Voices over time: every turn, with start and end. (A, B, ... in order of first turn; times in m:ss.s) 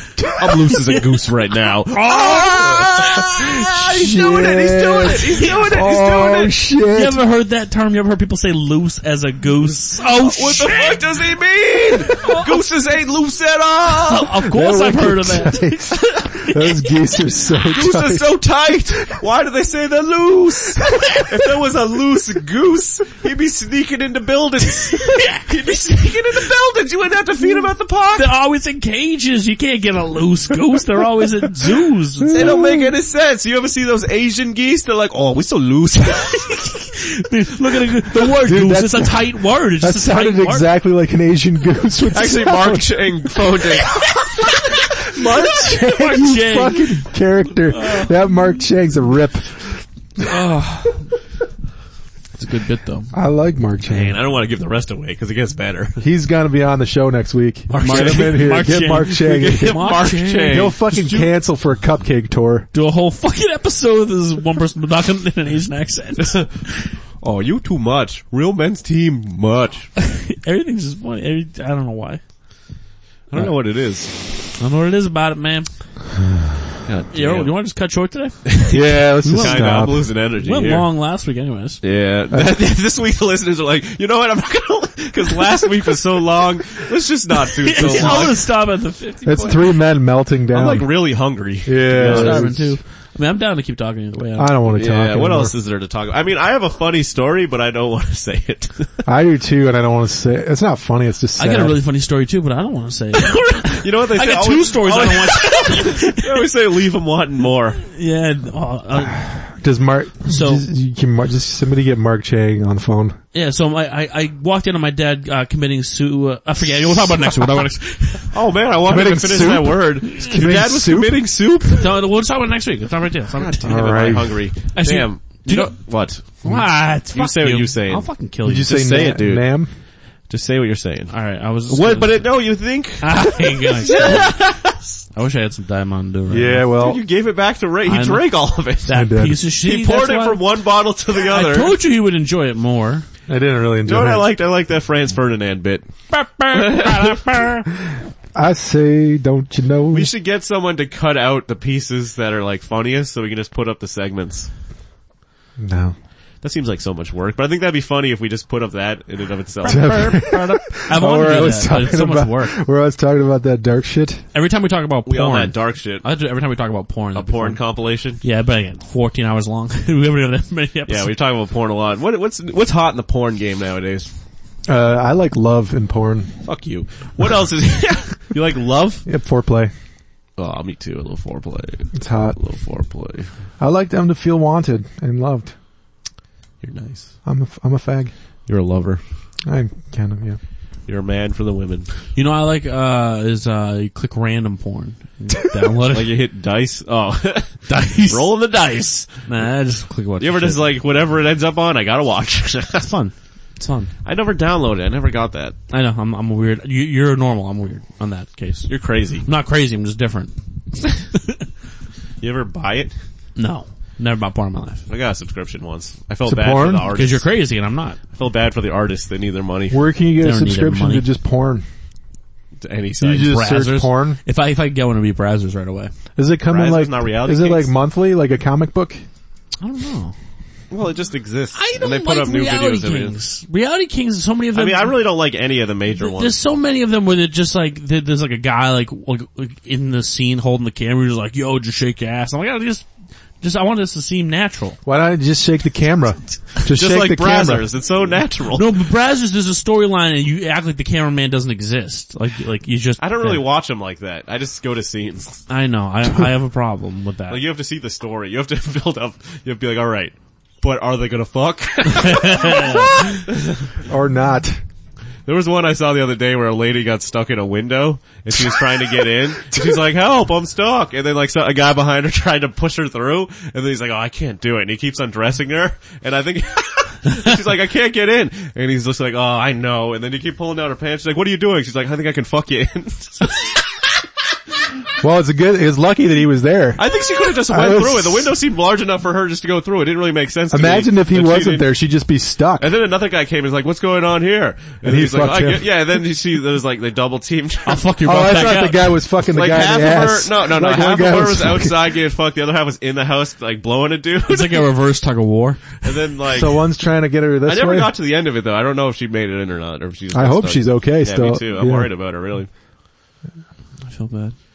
0:00.2-0:00.6 A
0:00.3-0:06.5 B
0:01.9-0:03.5 C
0:03.0-0:07.2 A
0:06.9-0:11.0 C
0:10.2-0:14.3 B
0:12.2-0:12.5 C
0:14.0-0:16.6 C
0:14.5-0:18.4 A
0:17.6-0:28.3 B
0:24.9-0:25.5 C
0:28.2-0:32.6 C
0:32.2-0:32.9 A
0:32.3-0:36.5 B
0:36.2-0:40.7 C
0:38.4-0:43.0 A
0:42.1-0:44.2 B
0:43.8-0:47.0 C
0:45.2-0:50.2 A
0:47.6-0:48.2 C
0:50.2-0:51.1 C
0:52.3-0:53.1 C
0:53.1-0:54.2 A
0:53.8-0:56.0 B
0:56.0-0:59.8 A
0:57.7-1:01.3 C
0:57.8-1:00.7 B
1:00.5-1:02.7 A
1:02.7-1:07.0 C
1:06.2-1:06.6 B
1:07.2-1:09.9 B
1:10.1-1:12.2 C
1:13.3-1:14.1 B
1:14.6-1:15.7 C
1:16.8-1:17.5 B
1:17.1-1:18.4 C
1:18.4-1:20.9 B
1:18.7-1:20.0 A
1:19.2-1:19.7 C
1:20.4-1:21.8 C
1:21.8-1:28.5 B
1:27.6-1:29.7 C
1:27.8-1:28.2 A
1:29.2-1:30.9 A
1:30.5-1:32.5 B
1:31.6-1:32.8 A
1:32.0-1:34.6 C
1:34.4-1:35.5 A
1:34.7-1:39.0 B
1:39.0-1:41.8 A
1:41.4-1:46.4 C
1:43.3-1:47.8 B
1:47.8-1:49.2 C
1:49.2-1:53.2 A
1:50.2-1:50.6 C
1:53.3-1:58.3 C
1:58.3-2:01.9 B
1:58.8-2:01.2 A
2:01.7-2:04.0 C
2:03.4-2:06.4 B
2:03.6-2:04.4 A
2:04.7-2:08.8 C
2:07.1-2:09.6 B
2:08.4-2:09.7 A
2:10.3-2:15.0 B
2:11.1-2:12.3 C
2:13.0-2:14.4 C
2:15.1-2:16.7 C
2:16.3-2:17.0 A
2:16.7-2:18.9 B
2:17.9-2:18.3 C
2:18.8-2:20.4 C
2:18.9-2:19.4 A
2:19.6-2:21.7 B
2:21.2-2:23.0 C
2:23.3-2:24.2 A
2:23.8-2:25.9 B
2:26.1-2:27.7 C
2:26.5-2:27.4 B
2:28.3-2:30.1 A
2:29.9-2:34.5 B
2:35.6-2:36.0 A
2:36.4-2:40.0 B
2:39.6-2:42.5 C
2:39.6-2:44.2 A
2:44.3-2:47.6 C
2:45.1-2:46.0 B
2:47.1-2:48.2 B
2:48.2-2:51.1 C
2:50.9-2:54.1 B
2:54.7-2:56.3 A
2:56.4-2:59.0 B
2:59.0-2:59.7 A
3:00.4-3:03.3 B
3:01.9-3:02.4 A
3:03.6-3:05.5 A
3:06.6-3:07.1 B
3:07.2-3:08.1 A
3:08.5-3:09.0 B
3:09.4-3:10.4 A
3:10.9-3:11.9 B
3:12.1-3:16.2 C
3:15.9-3:19.2 B
3:17.7-3:18.3 C
3:19.2-3:20.7 C
3:20.2-3:22.9 B
3:22.8-3:23.9 C
3:24.0-3:25.6 B
3:25.7-3:28.7 C
3:28.7-3:29.2 B
3:29.2-3:30.3 C
3:32.2-3:32.9 B
3:33.4-3:34.9 C
3:34.9-3:37.3 B
3:36.2-3:36.9 A
3:36.9-3:38.0 C
3:38.1-3:39.8 B
3:39.7-3:41.6 A
3:40.2-3:41.0 C
3:42.6-3:43.4 B
3:43.0-3:44.2 A
3:43.2-3:45.9 C
3:46.2-3:49.0 A
3:46.5-3:47.7 B
3:49.6-3:50.1 C
3:50.7-3:53.2 B
3:51.5-3:55.0 C
3:54.5-3:56.4 B
3:56.0-4:02.9 C
4:03.4-4:04.8 C
4:04.8-4:07.7 A
4:06.7-4:08.7 B
4:08.5-4:13.4 C
4:13.0-4:15.4 B
4:15.5-4:17.4 C
4:17.3-4:23.7 B
4:22.0-4:22.9 C
4:23.9-4:24.6 A
4:25.2-4:43.6 B
4:29.5-4:29.8 A
4:45.0-4:46.8 A
4:46.8-4:51.7 B
4:47.5-4:48.3 A
4:50.5-4:52.7 A
4:52.6-4:58.6 B
4:54.8-4:55.6 A
4:57.6-4:58.8 C
4:58.0-5:01.8 A
4:59.3-5:04.7 B
5:04.2-5:05.9 C
5:05.8-5:06.6 B
5:06.3-5:07.9 A
5:07.4-5:12.5 B
5:10.1-5:11.9 A
5:13.8-5:14.3 C